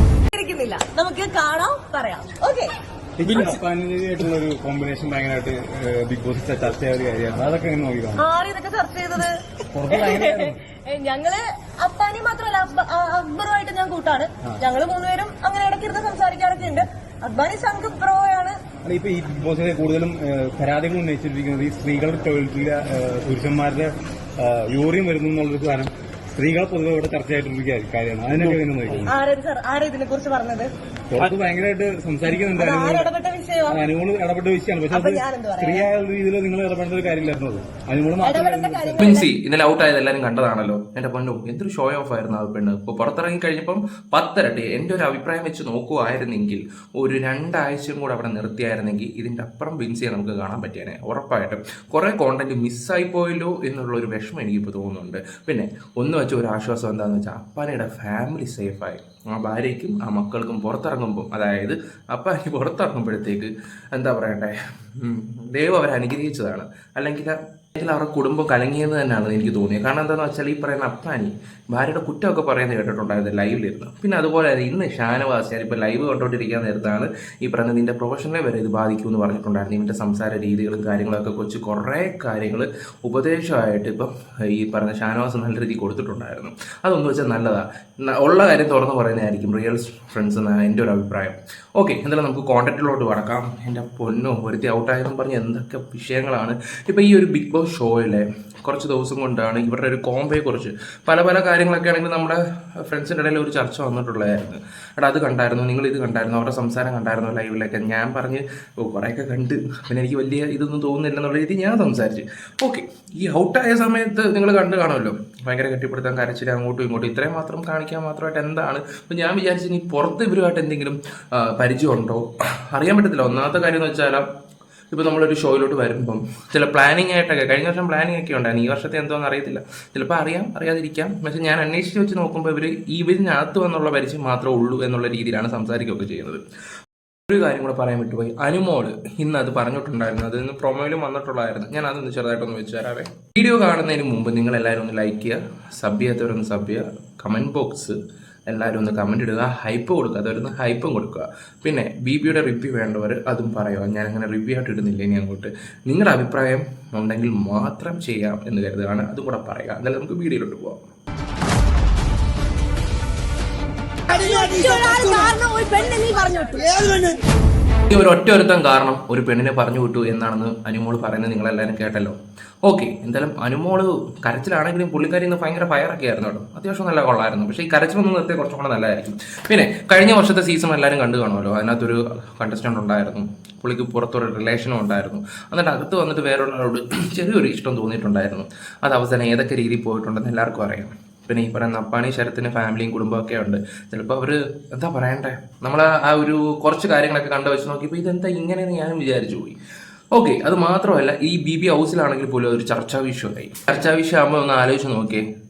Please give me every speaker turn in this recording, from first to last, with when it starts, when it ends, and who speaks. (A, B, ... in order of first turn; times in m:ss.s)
0:00.3-0:02.7 A
0:03.2-0:08.2 B
0:08.2-0:18.6 A
0:09.7-0:10.6 B
0:18.8-0:29.2 B
0:29.0-0:30.7 A
0:31.1-0:33.1 B
0:32.3-0:33.8 A
0:33.7-0:39.1 B
0:34.9-0:35.9 A
0:38.2-0:39.3 A
0:39.0-2:04.2 C
2:04.9-2:16.4 C
2:17.3-2:28.0 C
2:28.5-2:40.9 C
2:44.1-2:47.2 A
2:47.9-3:19.6 C
3:20.1-3:25.2 C